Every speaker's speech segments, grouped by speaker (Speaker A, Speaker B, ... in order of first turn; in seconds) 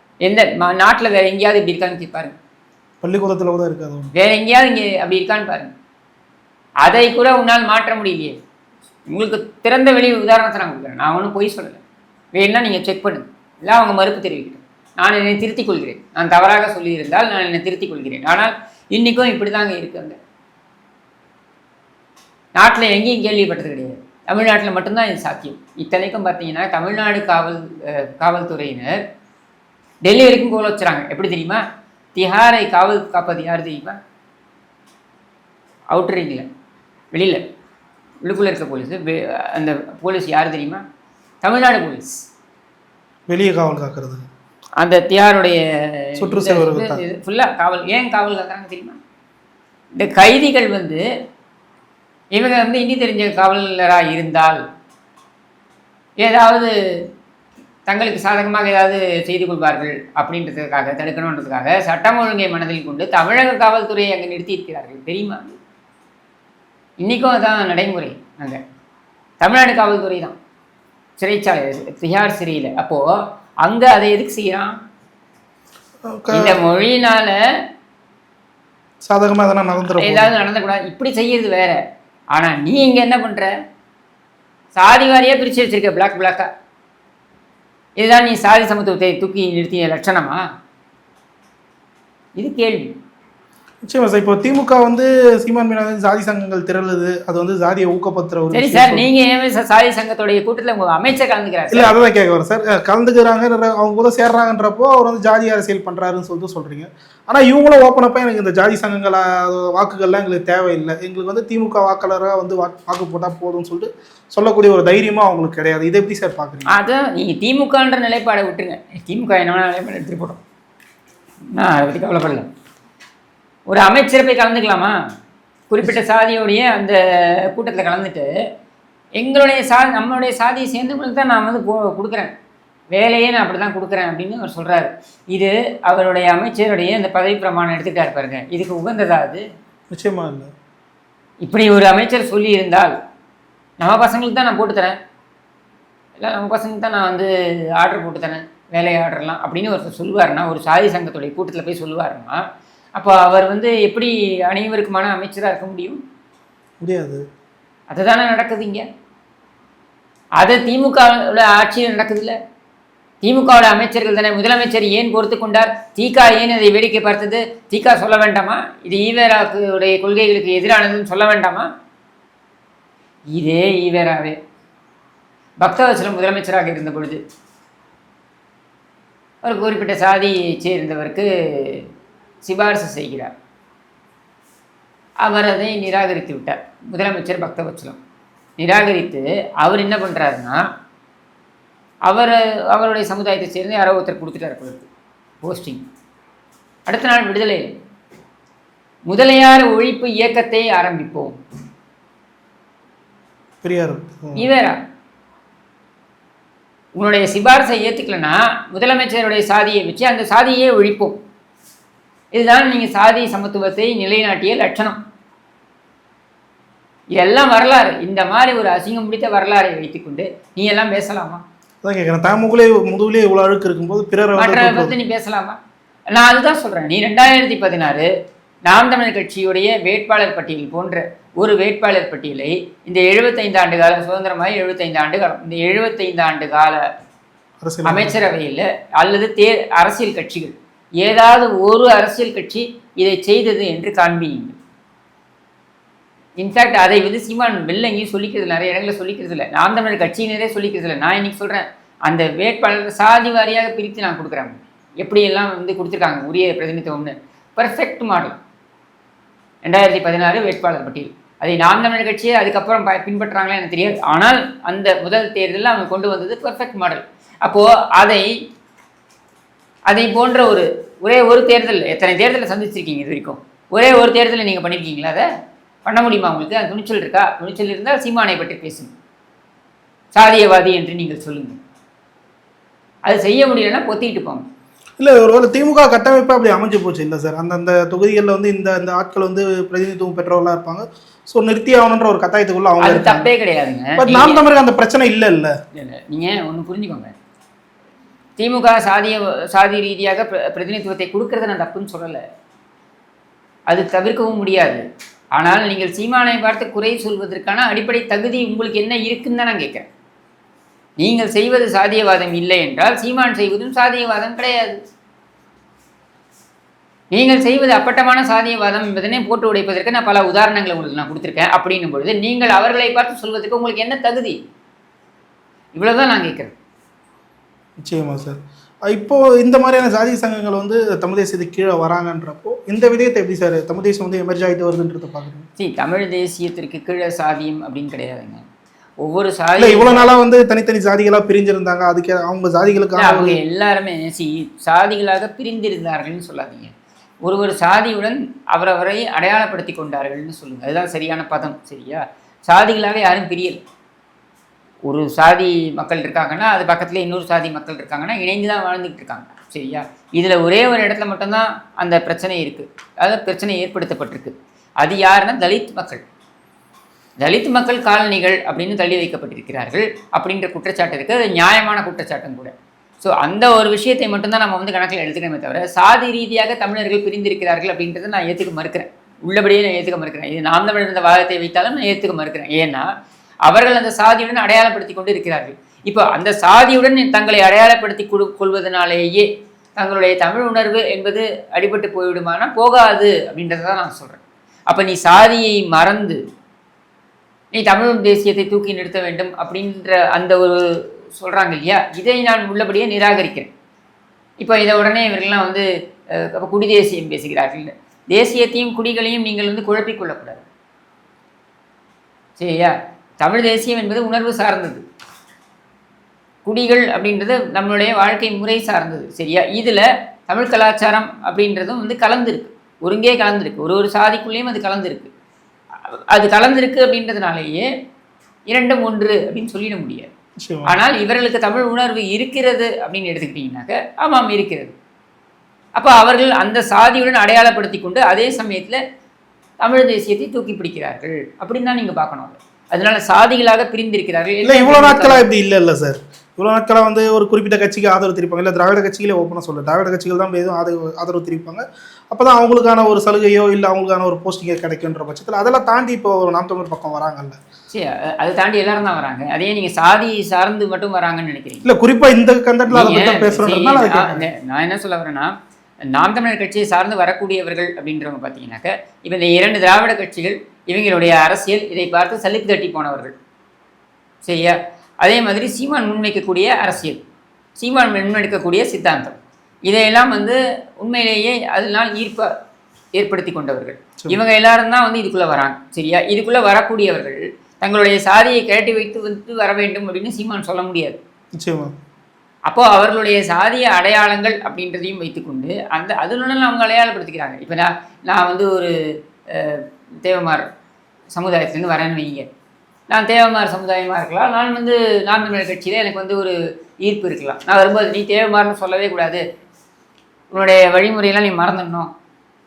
Speaker A: 0.2-2.4, 4.1-5.7, 6.8-8.4, 9.1-11.8, 12.3-20.2, 22.6-29.0, 30.0-31.6, 32.1-34.0, 35.9-36.5, 37.1-37.4, 38.2-40.8, 41.4-42.2, 44.8-49.0, 50.0-51.0, 52.3-54.6, 56.2-56.7, 57.9-65.6, 67.0-68.6, 69.4-70.4, 71.2-73.1, 73.6-74.8, 76.3-77.4, 79.9-81.8, 82.3-83.5, 84.8-86.5, 88.0-90.4, 92.4-92.9, 98.5-101.9, 116.7-120.4, 121.5-122.5, 123.7-125.0, 125.7-128.3, 129.2-132.3, 132.9-139.4, 141.4-142.9, 143.8-145.0, 146.2-152.4, 153.0-156.0, 157.9-158.8, 160.4-162.3, 163.2-171.7, 173.3-174.4, 175.6-177.2, 179.4-181.9, 182.4-183.3, 185.2-188.0, 188.6-190.6, 192.1-194.9, 195.4-195.8, 196.9-197.7, 199.1-201.4, 204.4-204.8, 207.0-211.2, 212.3-215.0, 217.1-221.4, 224.4-225.6, 226.1-228.1, 228.7-236.8, 237.8-244.6, 246.4-258.4, 259.6-268.3, 269.9-275.3, 275.9-278.9, 280.1-281.6, 283.1-284.4, 292.8-294.4, 295.7-297.1, 298.4-302.2, 303.7-304.8, 305.4-309.9, 311.0-314.8, 317.1-324.4, 325.8-326.5, 335.6-338.4, 339.0-340.1, 343.0-346.7, 347.2-353.6, 354.9-366.0, 367.2-382.9, 383.5-396.2, 397.5-400.6, 401.1-403.5, 404.4-410.4, 412.4-414.8, 416.5-425.1, 425.9-427.7, 428.5-430.1, 430.7-434.8, 435.8-438.8, 439.6-445.2, 457.7-461.7, 462.7-473.1, 474.2-477.0, 477.6-482.3, 483.0-491.0, 492.5-498.8, 499.3-500.5, 501.1-502.2, 502.9-509.2, 510.3-511.9
Speaker B: 3.0-4.1, 43.3-44.2, 46.2-47.0, 76.1-76.6, 79.0-80.3, 93.8-99.1, 101.7-116.7, 139.9-140.5, 156.8-157.2, 203.6-204.5, 221.8-225.0, 237.6-238.2, 285.0-293.3, 294.0-295.6, 327.8-335.5, 339.6-343.4, 430.4-430.8, 444.4-457.4, 461.6-464.2, 491.4-491.7